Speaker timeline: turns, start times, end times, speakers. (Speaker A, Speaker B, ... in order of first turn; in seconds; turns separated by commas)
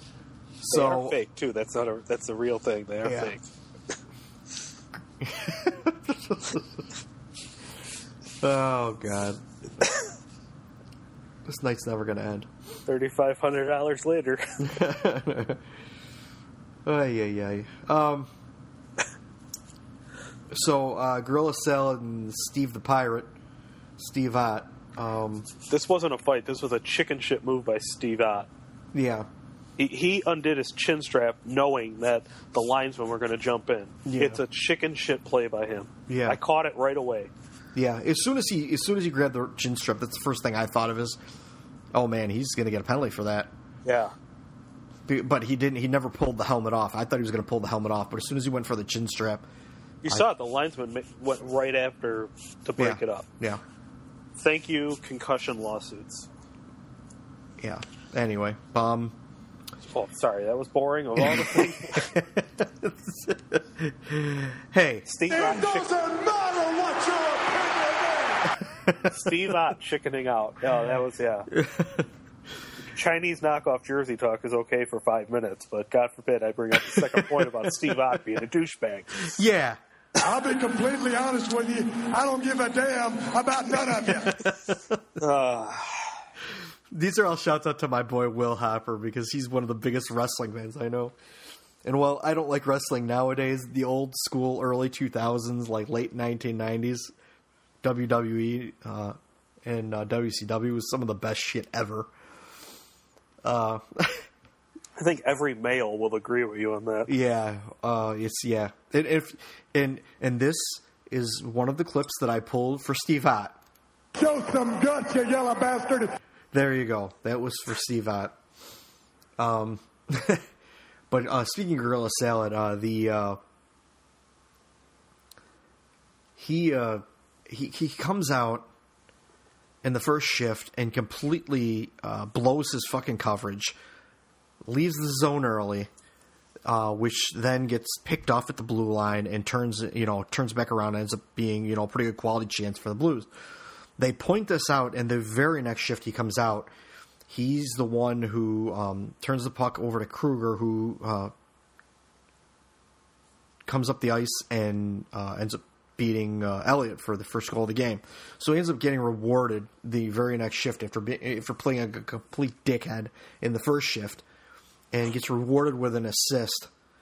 Speaker A: 0.6-1.2, Speaker B: 0.7-3.5, Speaker A: 3.0-3.3, Speaker A: 5.2-6.7, Speaker A: 8.4-9.4, Speaker A: 11.4-12.5, Speaker B: 12.8-14.5, Speaker A: 14.6-15.6, Speaker A: 16.8-18.3, Speaker A: 20.5-23.3, Speaker A: 24.0-25.5, Speaker B: 25.7-28.5, Speaker A: 28.9-29.3, Speaker B: 29.8-37.3, Speaker A: 34.0-34.4, Speaker A: 36.1-36.4, Speaker A: 37.7-41.2, Speaker A: 41.9-43.5, Speaker B: 43.8-44.1, Speaker A: 45.1-49.4, Speaker B: 50.0-53.2, Speaker A: 52.8-53.6, Speaker B: 54.4-56.3, Speaker A: 57.6-59.1, Speaker B: 59.9-62.1, Speaker A: 61.1-65.1, Speaker B: 65.0-65.9, Speaker C: 65.3-68.6, Speaker A: 68.8-69.3, Speaker B: 69.1-71.5, Speaker A: 71.5-72.1, Speaker B: 72.9-79.3, Speaker A: 76.7-78.2, Speaker A: 79.2-79.8, Speaker C: 80.2-84.4, Speaker A: 83.9-85.0, Speaker B: 85.2-86.1, Speaker A: 86.9-91.1, Speaker A: 91.8-97.1, Speaker A: 97.8-102.1, Speaker A: 103.4-104.3, Speaker B: 105.0-107.1, Speaker A: 107.1-113.6, Speaker C: 114.2-116.2, Speaker A: 116.5-118.3, Speaker A: 119.4-120.5, Speaker A: 121.1-123.4, Speaker A: 126.4-128.7, Speaker A: 129.8-133.7, Speaker A: 134.6-135.9, Speaker A: 136.7-143.3, Speaker A: 144.0-146.7, Speaker A: 147.3-151.3, Speaker A: 153.7-164.2, Speaker A: 164.9-166.7